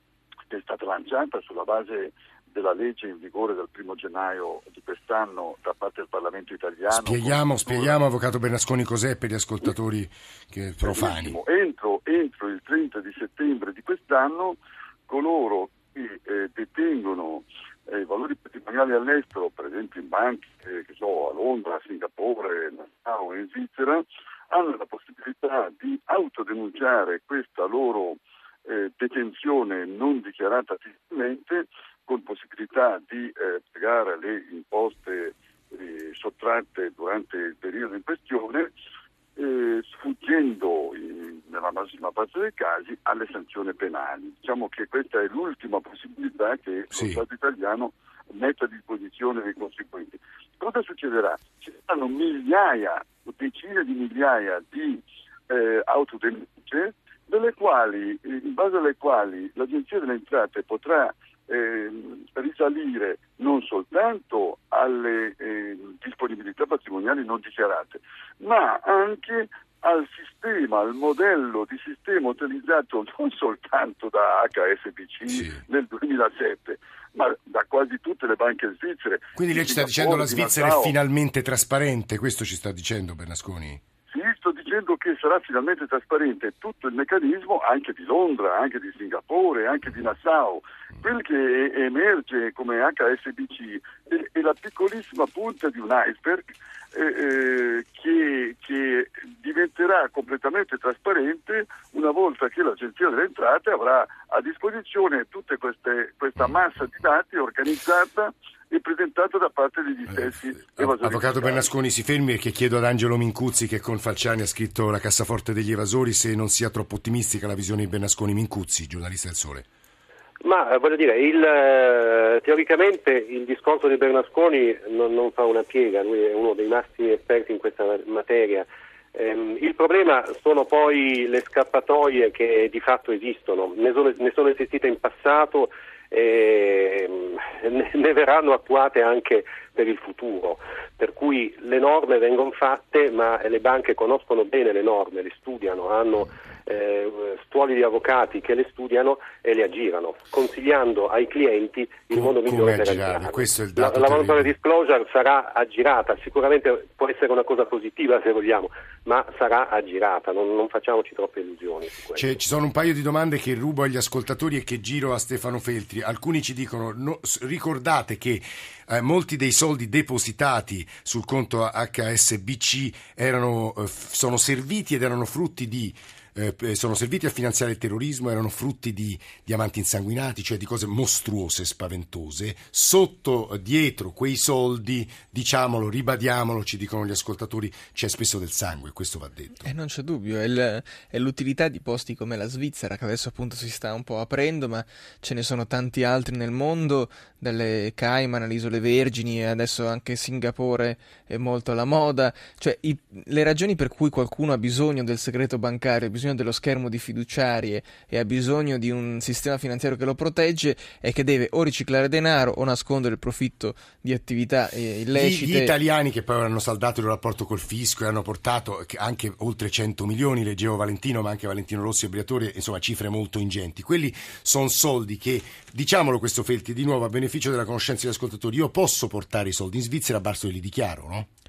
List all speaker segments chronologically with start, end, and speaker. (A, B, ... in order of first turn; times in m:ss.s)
0:00.5-0:07.9 A
0:06.9-0:11.4 B
0:10.8-0:38.7 A
0:39.4-1:20.9 A
0:46.9-0:47.2 B
1:15.3-1:15.6 B
1:19.4-1:23.8 B
1:24.1-1:51.7 A
1:50.1-1:59.6 B
2:00.4-2:42.3 C
2:32.1-2:34.5 B
2:42.2-3:09.7 B
3:09.6-3:35.7 D
3:35.1-3:51.3 B